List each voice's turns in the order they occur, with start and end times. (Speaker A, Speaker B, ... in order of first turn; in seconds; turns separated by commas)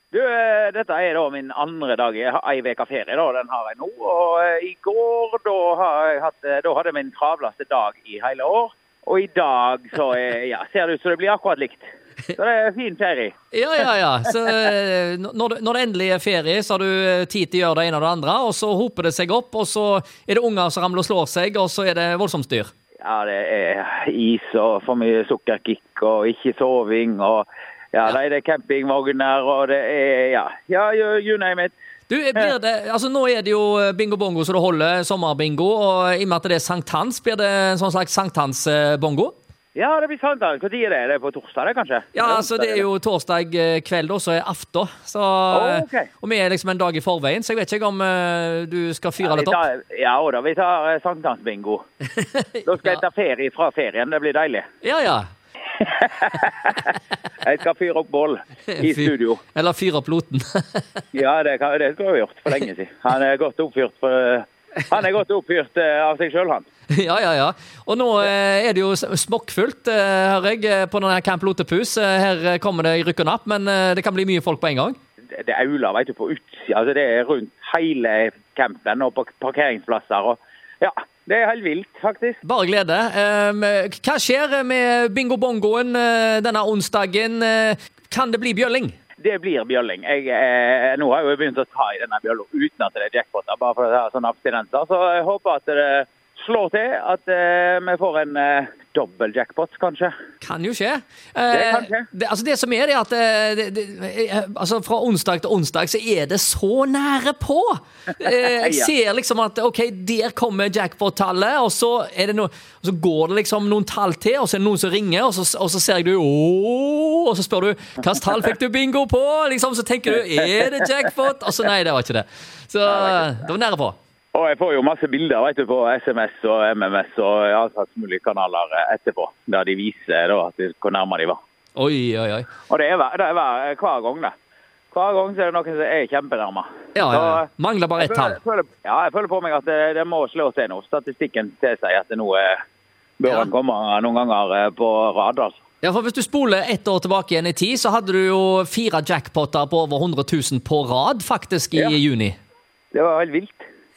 Speaker A: 0.1-13.3, Speaker B: 13.5-22.7, Speaker A: 23.0-31.7, Speaker B: 32.1-39.3, Speaker A: 39.8-42.9, Speaker B: 42.1-49.6, Speaker A: 45.5-46.1, Speaker A: 49.2-51.8, Speaker B: 52.2-52.6, Speaker A: 52.6-54.7, Speaker B: 54.8-55.3, Speaker A: 55.8-59.4, Speaker B: 58.7-60.8, Speaker A: 61.1-66.7, Speaker B: 66.9-75.0, Speaker A: 75.3-82.4, Speaker B: 82.4-89.0, Speaker A: 89.2-100.1, Speaker B: 100.4-124.0, Speaker A: 101.5-102.1, Speaker A: 108.2-108.9, Speaker A: 122.9-123.3, Speaker A: 124.3-131.4, Speaker B: 131.8-132.5, Speaker A: 132.7-134.3, Speaker A: 134.9-142.6, Speaker B: 136.9-138.4, Speaker A: 143.2-145.6, Speaker B: 145.8-152.4, Speaker A: 151.7-152.0, Speaker A: 152.9-153.7